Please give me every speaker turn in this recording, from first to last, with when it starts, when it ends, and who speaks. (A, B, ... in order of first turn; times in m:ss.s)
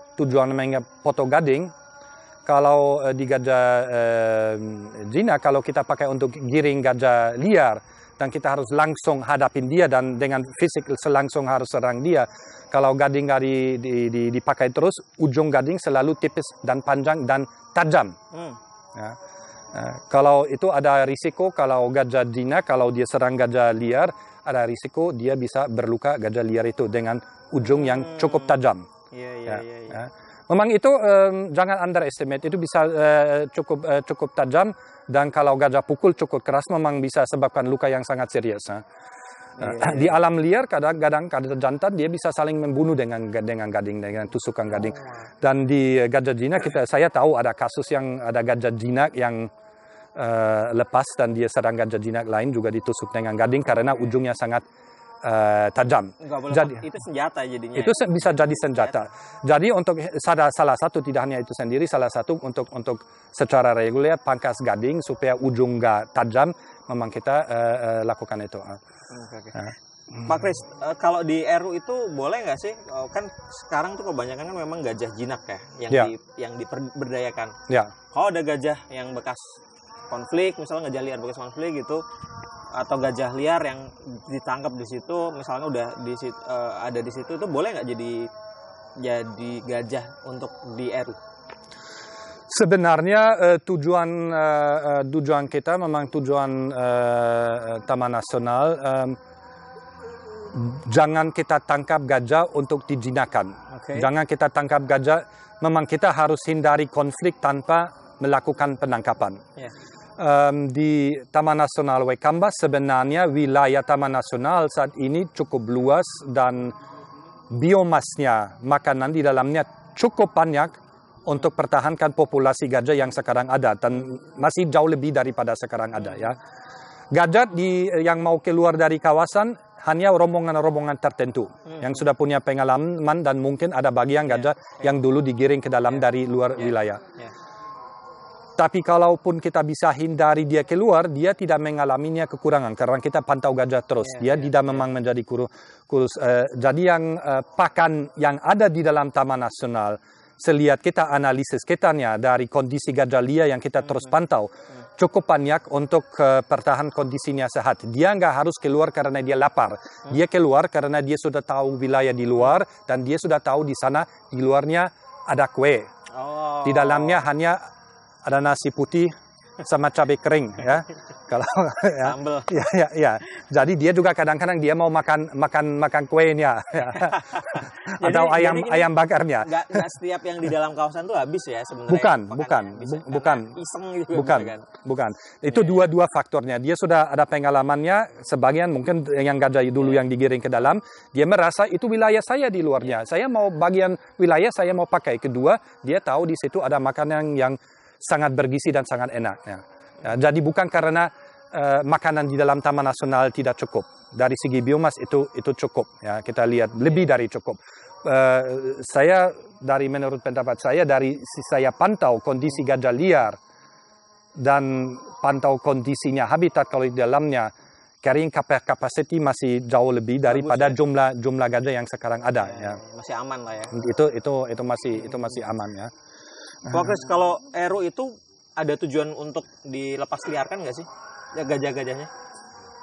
0:00.2-0:01.7 A
0:02.4-0:18.2 A
0:18.3-0:18.6 B
0:19.7-0:28.9 A
0:27.6-0:28.5 B
0:29.1-0:30.0 B
0:29.5-0:38.8 A
0:39.6-0:40.1 B
0:39.6-0:49.5 A
0:50.2-0:54.6 A
0:55.2-0:56.8 A
0:56.2-0:59.0 B
0:57.8-1:08.8 A
1:09.1-1:09.6 B
1:10.2-1:17.5 B
1:17.7-1:17.9 A
1:18.1-1:19.6 B
1:20.1-1:22.0 B
1:22.7-1:28.3 B
1:29.0-1:31.2 B
1:32.5-1:39.2 A
1:40.5-1:49.4 A
1:43.7-1:44.1 B
1:50.2-1:56.8 A
1:57.5-2:06.4 A
2:07.1-2:17.0 A
2:11.7-2:11.9 B
2:14.3-2:14.9 B
2:16.6-2:17.3 B
2:18.6-2:45.9 A
2:24.0-2:24.8 B
2:46.1-2:47.2 B
2:46.6-2:47.6 A
2:48.2-2:59.8 A
2:52.0-2:52.6 B
2:57.0-3:04.7 B
3:01.9-3:03.5 A
3:04.1-3:33.4 A
3:34.4-3:37.5 A
3:38.0-3:42.8 A
3:40.3-3:40.8 B
3:42.4-3:43.7 B
3:43.7-3:45.9 A
3:46.7-3:52.1 B